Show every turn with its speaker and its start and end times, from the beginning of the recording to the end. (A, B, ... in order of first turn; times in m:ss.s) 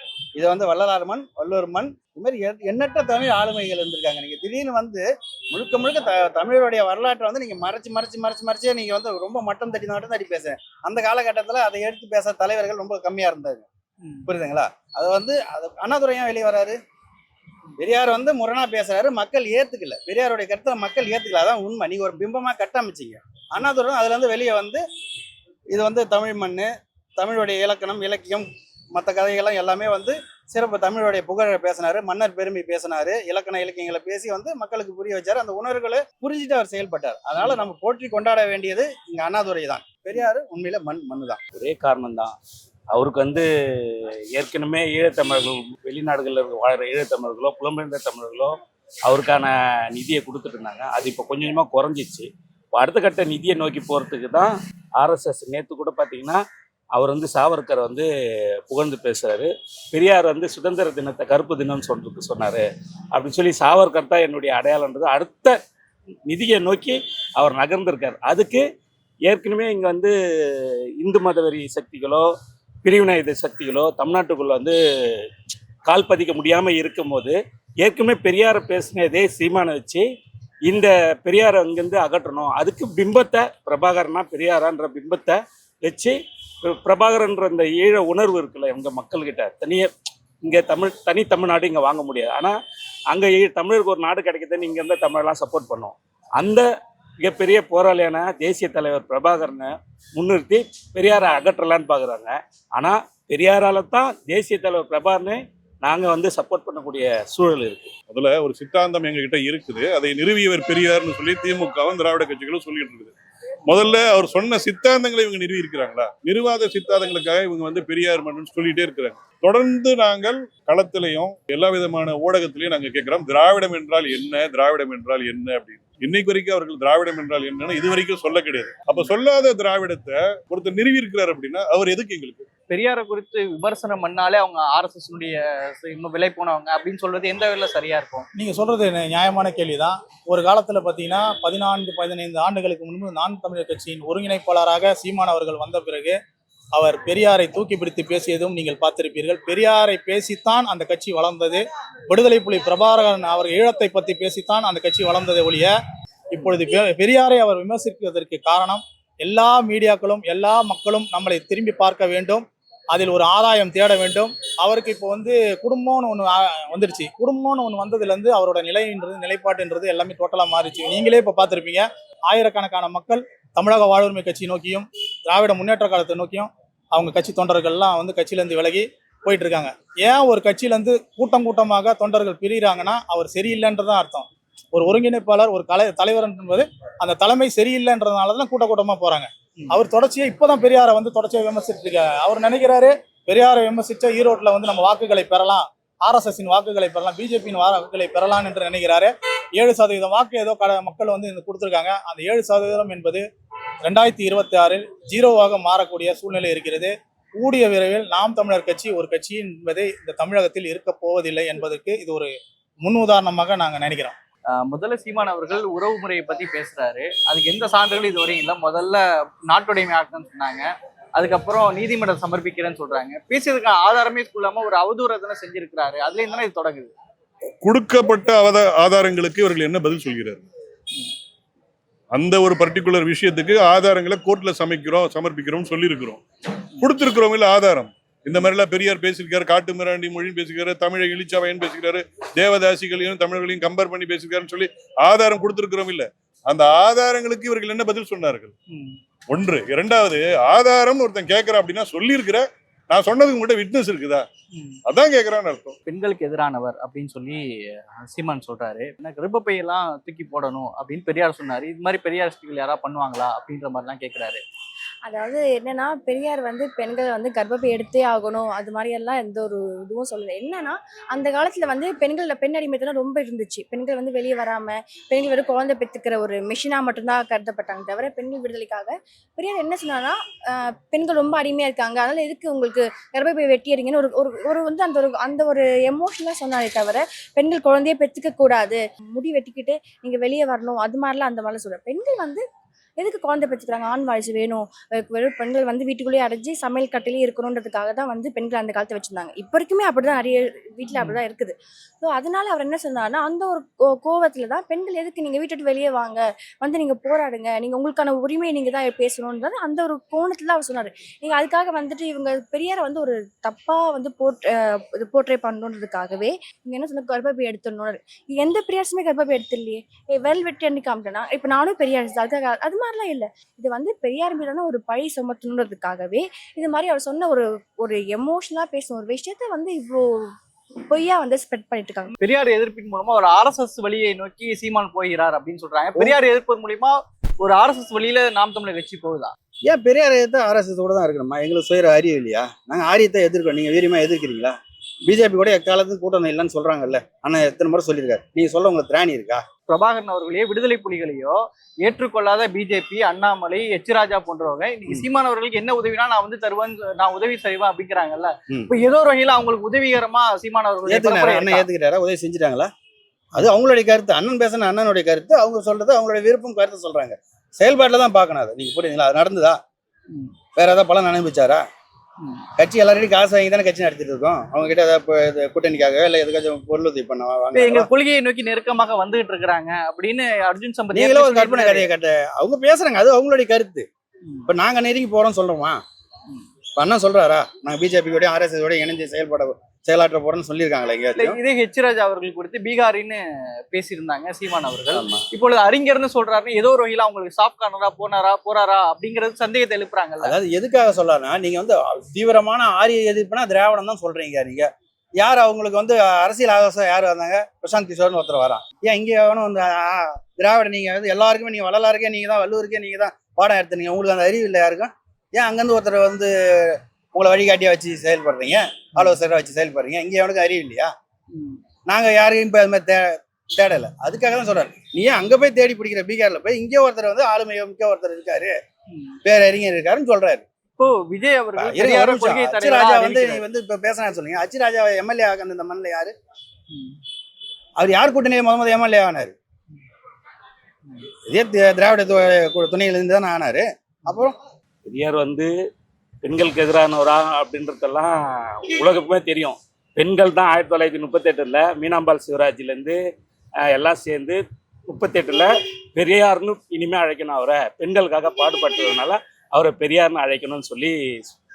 0:00.4-0:13.7 A
0:14.2-0:16.8 A
0:17.8-0:24.8 A
0:25.7-0:41.4 A
0:41.6-0:42.4 B
0:42.9-0:48.5 B
0:49.1-0:56.4 B
0:57.0-0:58.1 B
0:58.7-1:02.6 B
1:03.2-1:05.6 B
1:06.3-1:08.6 B
1:09.3-1:12.3 B
1:12.8-1:14.8 B
1:15.9-1:20.0 B
1:20.7-1:29.9 B
1:30.4-1:32.6 B
1:33.1-1:36.6 B
1:37.2-1:47.9 B
1:48.1-1:53.1 C
1:53.7-2:12.5 C
2:12.7-2:18.2 D
2:18.4-2:26.2 E
2:26.8-2:35.7 E
2:36.3-3:23.2 E
3:23.8-3:32.3 E
3:32.8-3:34.1 E
3:34.5-3:46.9 D
3:47.6-3:50.4 C
3:52.1-3:56.2 C
3:56.8-4:08.5 C
4:08.7-4:09.0 D
4:09.3-4:14.3 C
4:14.9-4:15.8 C
4:15.9-4:17.4 D
4:18.0-4:24.4 D
4:25.0-4:52.4 F
4:53.0-5:32.1 F
5:32.2-5:39.3 D
5:39.7-5:49.4 A
5:49.7-6:01.7 D
6:00.9-6:02.7 A
6:03.4-6:09.6 A
6:10.6-6:11.6 A
6:12.6-6:17.9 A
6:17.5-6:21.9 D
6:20.9-6:23.9 A
6:24.5-6:25.8 A
6:26.8-6:31.4 A
6:31.2-6:33.2 D
6:33.7-6:40.3 D
6:34.9-6:35.2 A
6:40.2-7:00.9 A
7:01.3-7:01.6 D
7:01.9-7:08.6 A
7:09.2-7:10.4 A
7:10.8-7:13.4 D
7:11.6-7:16.1 A
7:17.8-7:19.4 A
7:21.3-7:24.4 A
7:24.9-7:25.5 B
7:26.2-7:28.2 B
7:28.7-7:33.0 B
7:33.7-7:40.9 B